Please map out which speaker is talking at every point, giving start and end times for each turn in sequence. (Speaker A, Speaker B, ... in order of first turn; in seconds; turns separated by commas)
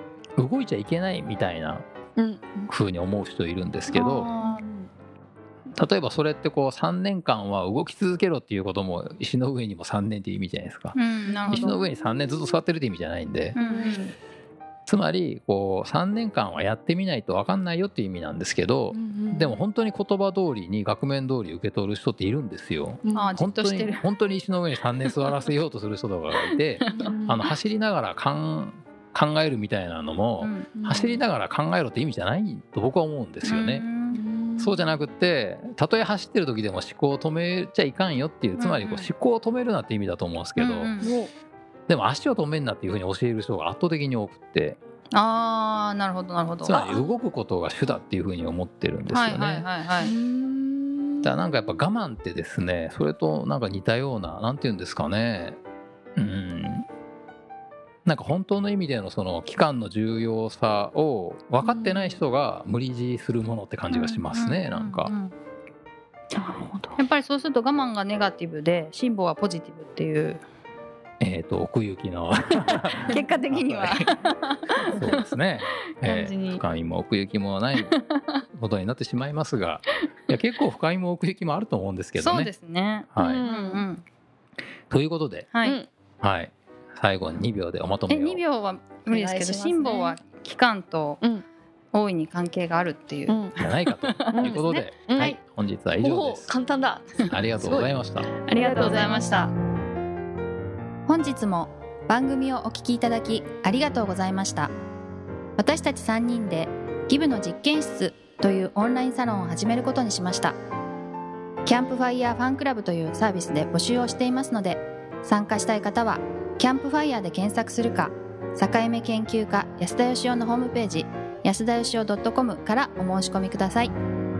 Speaker A: 0.4-1.9, Speaker B: 2.2-2.7, Speaker A: 2.7-4.3, Speaker C: 3.9-4.6, Speaker B: 4.4-4.9, Speaker A: 5.8-11.0, Speaker C: 10.9-11.8, Speaker B: 11.3-11.8, Speaker A: 11.5-13.6, Speaker C: 13.6-14.1, Speaker B: 13.6-14.1, Speaker A: 14.9-33.9, Speaker B: 18.9-19.6, Speaker B: 23.1-23.4, Speaker C: 23.1-24.0, Speaker C: 26.8-27.1, Speaker B: 26.9-27.5, Speaker C: 30.4-30.7, Speaker B: 30.7-31.2, Speaker C: 33.4-34.2, Speaker B: 34.1-34.8, Speaker A: 34.6-40.9, Speaker C: 38.6-39.1, Speaker C: 40.6-41.1, Speaker B: 41.0-41.3, Speaker A: 41.9-44.8, Speaker C: 45.1-46.8, Speaker A: 46.6-49.6, Speaker B: 46.7-47.2, Speaker C: 49.1-50.1, Speaker B: 50.0-51.8, Speaker A: 51.2-55.6, Speaker A: 56.2-56.9, Speaker A: 58.1-65.1, Speaker B: 61.6-62.2, Speaker C: 63.9-65.3, Speaker B: 66.4-67.0, Speaker C: 67.0-70.4, Speaker A: 71.2-74.1, Speaker C: 73.1-75.2, Speaker A: 74.9-77.9, Speaker C: 76.0-76.6, Speaker C: 77.8-78.4, Speaker A: 78.5-82.5, Speaker C: 82.2-84.0, Speaker A: 83.2-83.4, Speaker B: 83.2-83.8, Speaker A: 84.9-85.5, Speaker C: 85.5-85.8, Speaker A: 86.2-88.4, Speaker C: 88.1-91.2, Speaker B: 89.1-90.2, Speaker C: 91.9-95.4, Speaker B: 93.3-93.5, Speaker A: 93.6-96.5, Speaker B: 94.3-95.4, Speaker B: 96.0-97.9, Speaker A: 97.3-98.3, Speaker C: 98.4-99.5, Speaker B: 98.5-99.5, Speaker C: 101.1-104.7, Speaker C: 105.6-110.6, Speaker C: 111.7-123.9